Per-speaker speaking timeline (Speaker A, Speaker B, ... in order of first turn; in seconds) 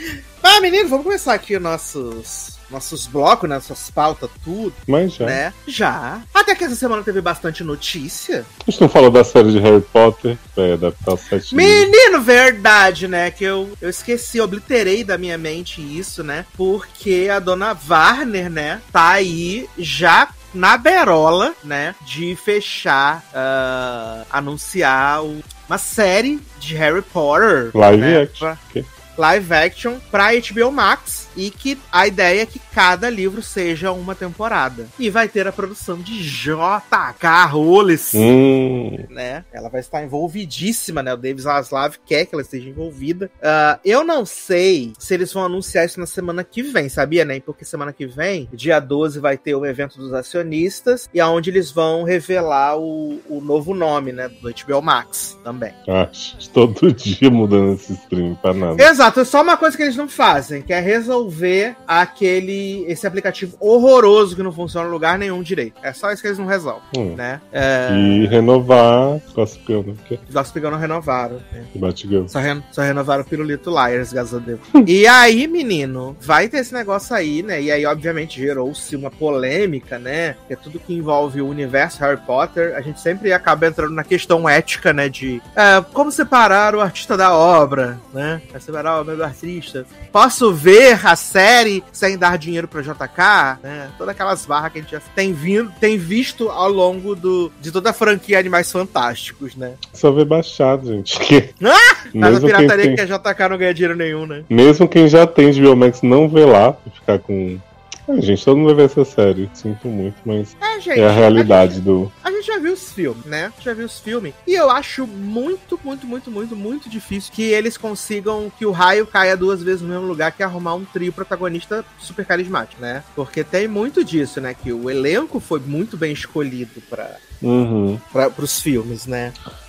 Speaker A: 0.4-8.5, 11.5-28.6, 29.1-38.3, 39.1-55.7, 58.8-68.4, 70.3-71.7, 72.3-99.8, 101.6-104.5, 110.6-127.2, 128.1-129.3
Speaker B: 4.9-5.4, 8.6-11.9, 27.7-28.9, 38.1-39.0, 55.9-58.9, 66.9-67.2, 67.9-70.2, 71.7-72.3, 99.9-101.5, 102.1-103.0, 104.5-112.1, 127.4-128.0